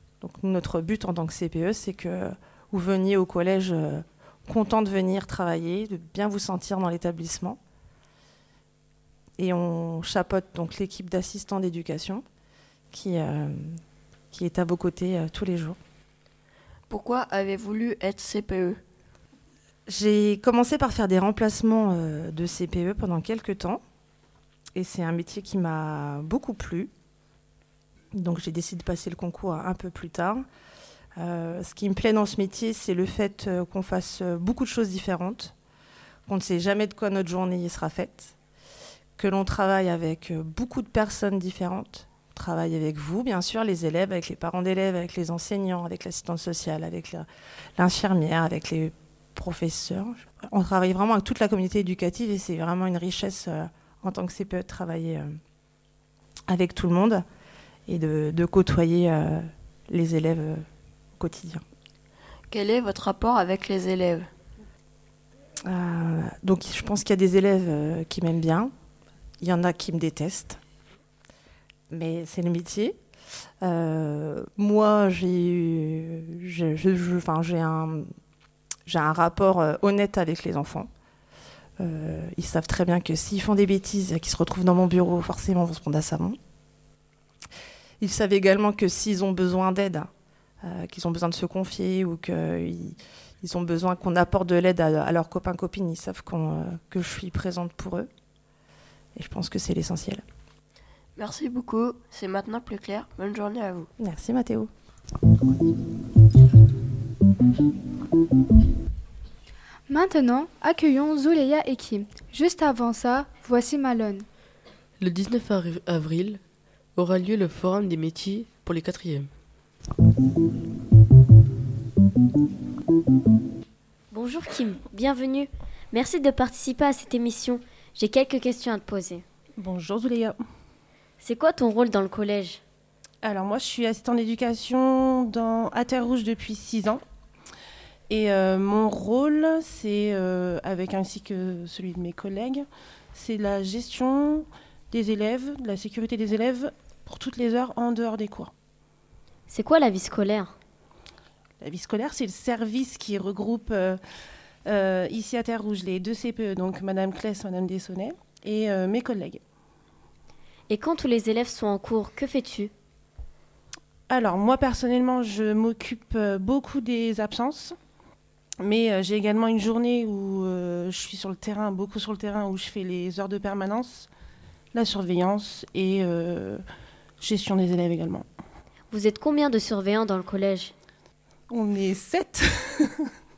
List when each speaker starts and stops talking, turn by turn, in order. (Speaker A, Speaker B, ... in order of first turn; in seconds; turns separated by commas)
Speaker A: 0.2-7.6, Speaker A: 9.4-12.2, Speaker A: 12.9-13.8, Speaker A: 14.3-15.8, Speaker B: 16.9-18.8, Speaker A: 19.9-23.8, Speaker A: 24.8-26.9, Speaker A: 28.1-30.4, Speaker A: 31.2-35.5, Speaker A: 36.3-38.3, Speaker A: 39.2-47.3, Speaker A: 47.8-55.3, Speaker A: 56.5-57.2, Speaker A: 57.9-60.7, Speaker A: 61.2-61.6, Speaker B: 62.5-64.3, Speaker A: 65.7-68.7, Speaker A: 69.4-70.6, Speaker A: 71.9-73.0, Speaker A: 73.6-78.1, Speaker A: 78.9-80.9, Speaker A: 81.8-86.4, Speaker A: 88.0-90.1, Speaker A: 90.6-98.1, Speaker A: 99.2-100.2, Speaker B: 101.2-103.9, Speaker A: 104.0-104.7, Speaker C: 109.9-114.2, Speaker D: 115.0-116.4, Speaker D: 117.0-119.3, Speaker E: 124.1-129.2, Speaker F: 129.6-130.4, Speaker E: 131.2-132.6, Speaker F: 133.2-137.0, Speaker F: 138.1-142.6, Speaker F: 143.2-148.5, Speaker E: 149.5-150.5, Speaker F: 151.6-153.9, Speaker F: 154.7-159.4, Speaker E: 160.7-162.7, Speaker F: 164.1-167.7, Speaker F: 168.7-174.1, Speaker F: 174.8-176.6, Speaker F: 177.2-178.2, Speaker E: 178.9-180.7, Speaker F: 181.5-182.7